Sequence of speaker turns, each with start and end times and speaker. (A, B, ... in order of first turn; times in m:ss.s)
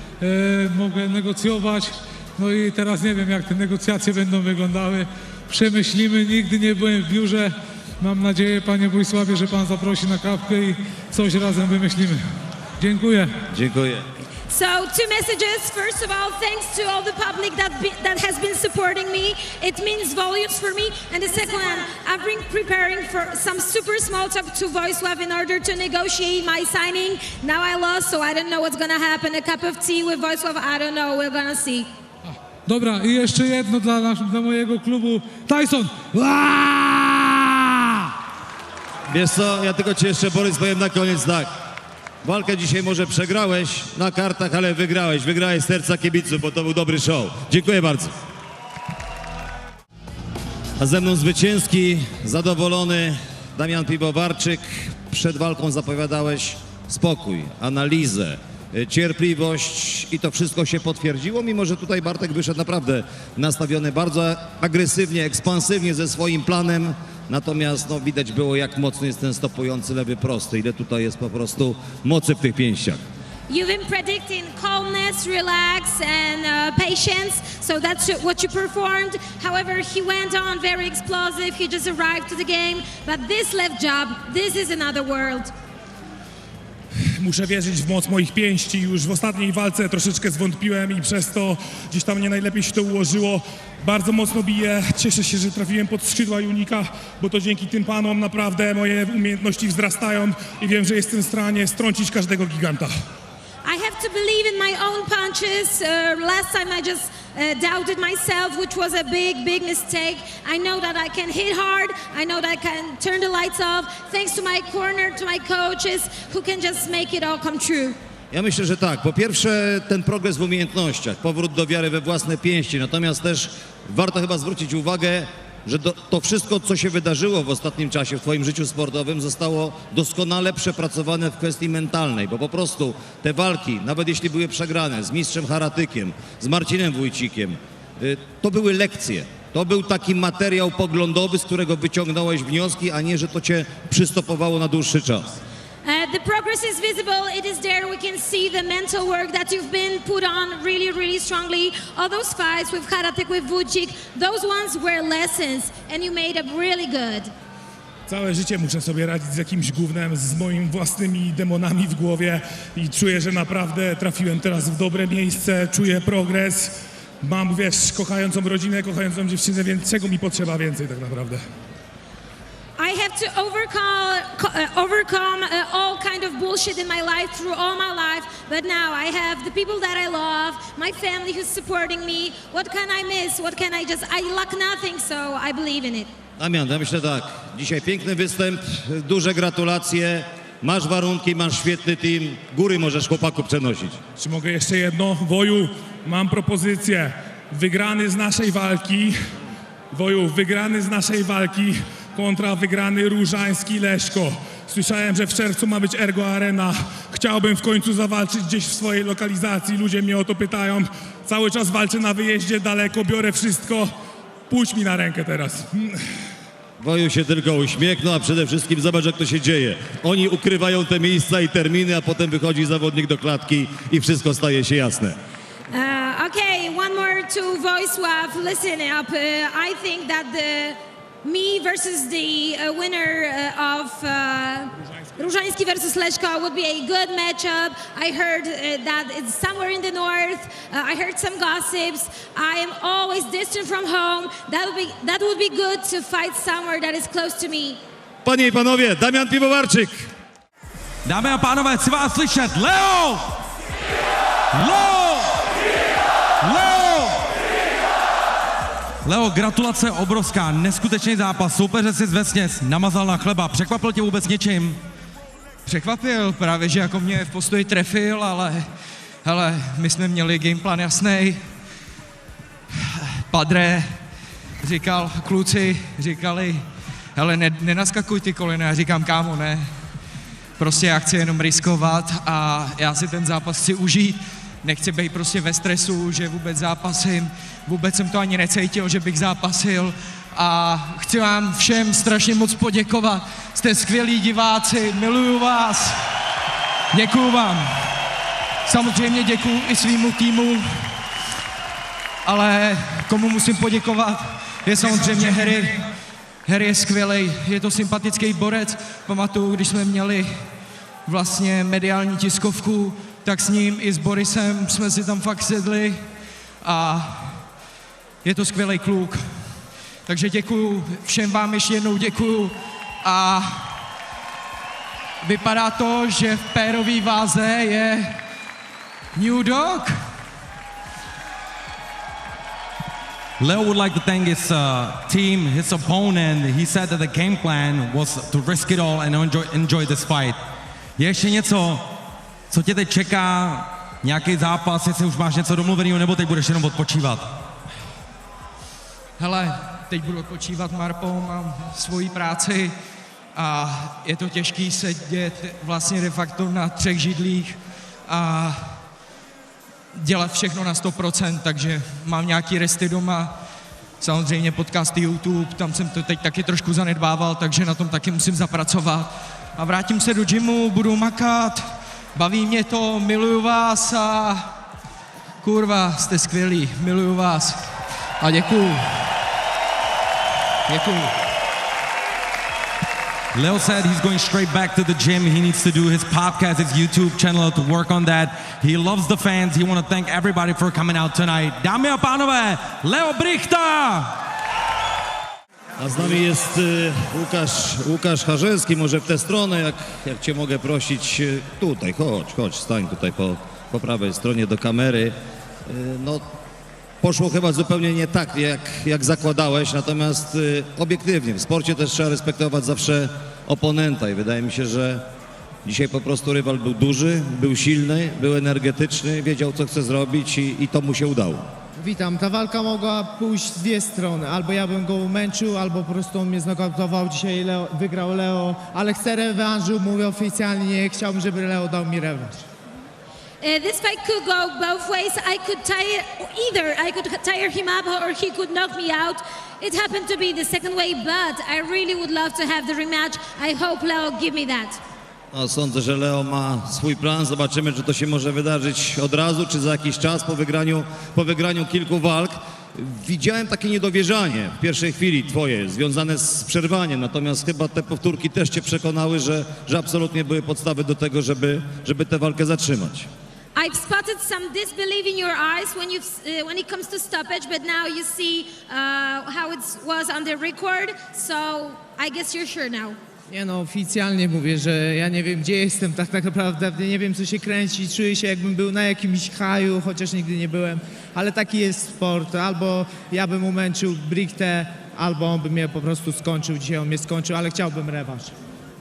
0:00.2-0:12.2 A
0:12.8-0:13.3 A
0:13.5-0:14.1 B
0:14.5-0:31.9 C
0:32.3-0:38.1 A
0:39.1-0:41.5 B
0:42.2-0:48.1 B
0:50.8-1:13.0 B
1:13.5-1:25.5 C
1:27.2-1:42.9 D
1:43.6-1:58.0 C
1:58.3-2:25.4 B
2:25.8-2:37.3 C
2:38.1-2:51.4 D
2:52.8-3:06.1 C
3:06.4-3:14.0 B
3:14.2-3:19.2 D
3:19.9-3:33.9 D
3:34.5-3:36.0 D
3:36.8-3:45.2 B
3:45.7-4:07.8 C
4:08.2-4:10.1 B
4:11.0-4:13.3 E
4:14.5-4:15.4 E
4:16.4-4:17.2 E
4:19.0-4:24.8 E
4:25.6-4:28.6 F
4:29.2-4:31.4 F
4:32.7-4:33.9 F
4:34.6-4:36.6 F
4:37.2-4:39.7 F
4:40.6-4:56.0 F
4:56.9-4:57.7 F
4:58.6-5:00.9 F
5:02.2-5:05.8 F
5:06.4-5:10.3 F
5:11.1-5:16.0 F
5:16.6-5:17.5 F
5:18.2-5:19.2 F
5:20.1-5:23.8 F
5:25.2-5:28.2 F
5:29.1-5:30.0 F
5:33.4-5:40.4 E
5:41.0-5:41.9 E
5:42.5-5:47.3 E
5:49.2-5:52.7 F
5:53.3-5:58.8 F
5:59.9-6:03.3 F
6:04.0-6:14.5 F
6:15.4-6:17.7 F
6:18.2-6:19.0 F
6:20.7-6:21.1 F
6:23.3-6:34.2 E
6:35.8-6:46.3 B
6:47.0-6:55.0 B
6:55.6-7:01.5 B
7:01.8-7:12.4 G
7:13.4-7:24.8 C
7:25.3-7:43.1 B
7:43.6-7:53.0 C
7:53.3-8:08.3 G